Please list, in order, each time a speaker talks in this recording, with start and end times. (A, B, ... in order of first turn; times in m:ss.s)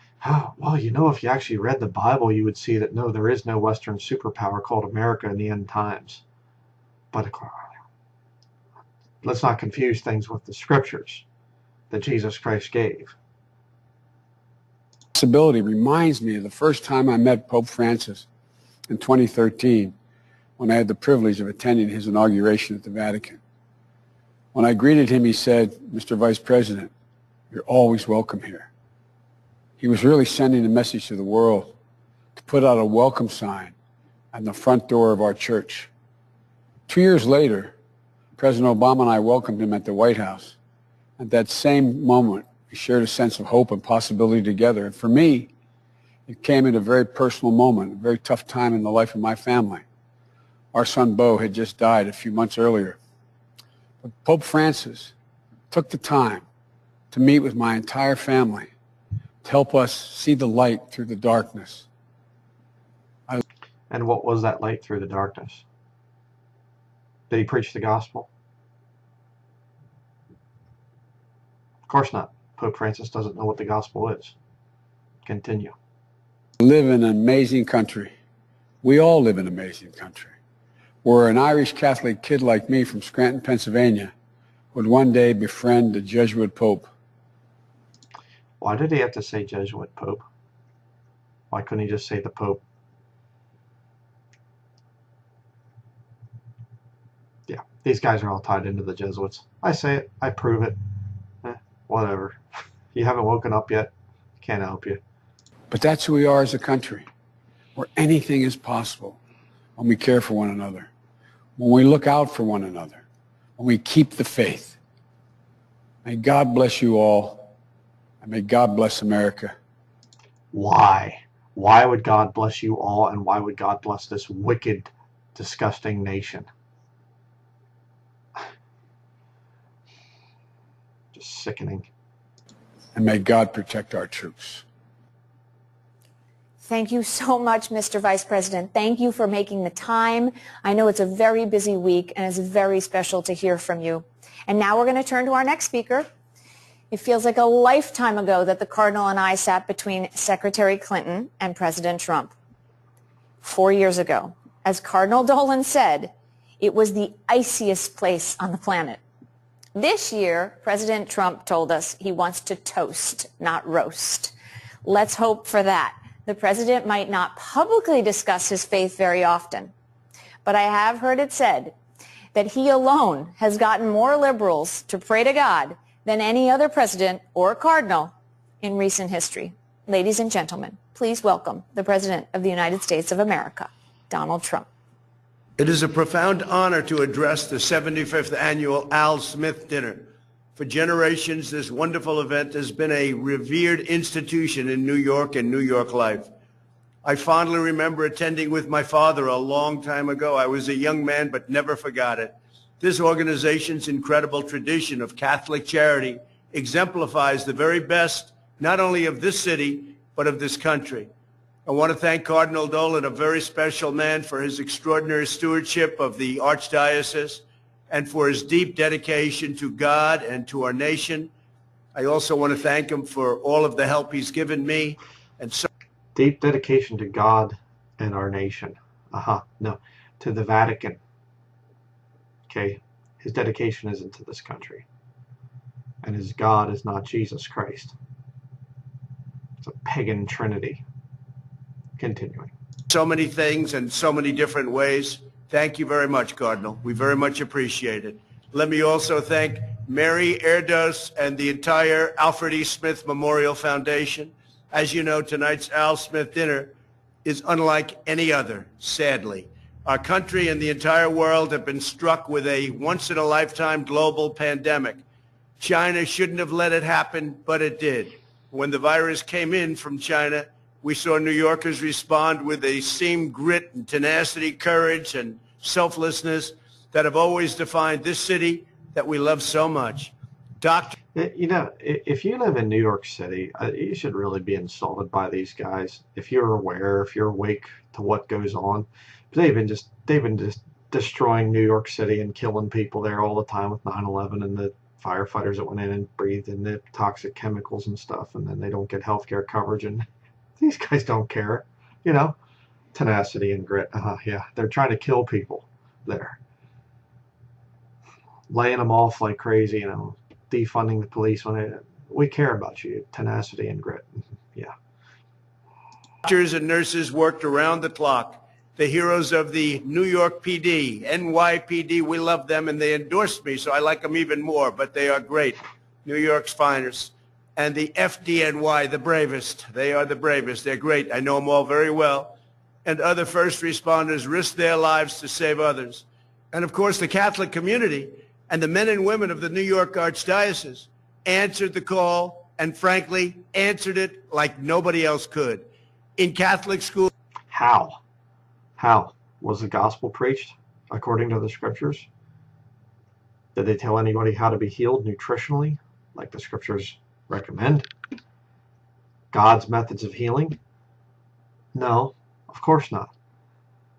0:00.2-0:06.2 A
0:07.1-0:07.7 A
0:09.2-0:11.2 A
0:11.9-0:13.1 A
0:15.1-0:18.3 B
0:18.9-0:19.9 B
0:20.6-0:23.4 B
0:24.5-0:26.9 B
0:27.5-0:28.7 B
0:29.8-0:31.7 B
0:32.4-0:33.7 B
0:34.3-0:35.9 B
0:36.9-0:37.7 B
0:38.4-0:40.6 B
0:41.2-0:45.5 B
0:46.3-0:49.8 B
0:50.7-0:53.0 B
0:54.0-0:55.1 B
0:55.7-0:56.4 B
0:57.1-0:58.7 B
0:59.4-1:01.9 B
1:03.9-1:05.6 A
1:07.3-1:08.3 A
1:11.9-1:14.4 A
1:15.3-1:15.7 A
1:16.6-1:18.1 B
1:18.8-1:20.3 B
1:21.0-1:24.1 B
1:24.7-1:26.9 B
1:28.6-1:30.2 A
1:31.5-1:32.6 A
1:37.5-1:40.8 A
1:41.4-1:42.4 A
1:42.9-1:45.0 A
1:45.7-1:47.1 B
1:47.8-1:49.2 B
1:49.8-1:50.9 B
1:51.6-1:53.0 B
1:53.6-1:54.8 B
1:56.0-1:57.5 B
1:58.2-1:59.5 B
2:00.5-2:06.5 A
2:11.1-2:11.9 A
2:13.0-2:14.6 B
2:16.6-2:26.1 C
2:26.9-2:32.3 C
2:33.4-2:39.0 C
2:39.8-2:44.3 C
2:44.8-2:49.7 C
2:50.4-2:51.8 C
2:52.3-3:04.7 C
3:05.6-3:16.3 D
3:17.0-3:31.1 D
3:31.7-3:41.3 D
3:42.0-3:45.7 D
3:46.2-3:51.0 A
3:52.5-3:54.8 A
3:56.0-3:57.9 A
3:59.6-4:00.8 A
4:02.0-4:02.5 A
4:02.9-4:16.7 D
4:17.2-4:25.0 D
4:25.6-4:41.0 D
4:41.1-5:00.1 A
5:00.6-5:02.4 A
5:02.9-5:06.4 A
5:08.5-5:14.7 A
5:16.2-5:45.6 D
5:46.2-5:47.1 D
5:47.5-5:48.0 A
5:48.8-5:52.1 A
5:53.6-5:57.9 A
5:59.3-6:00.6 A
6:01.7-6:03.1 A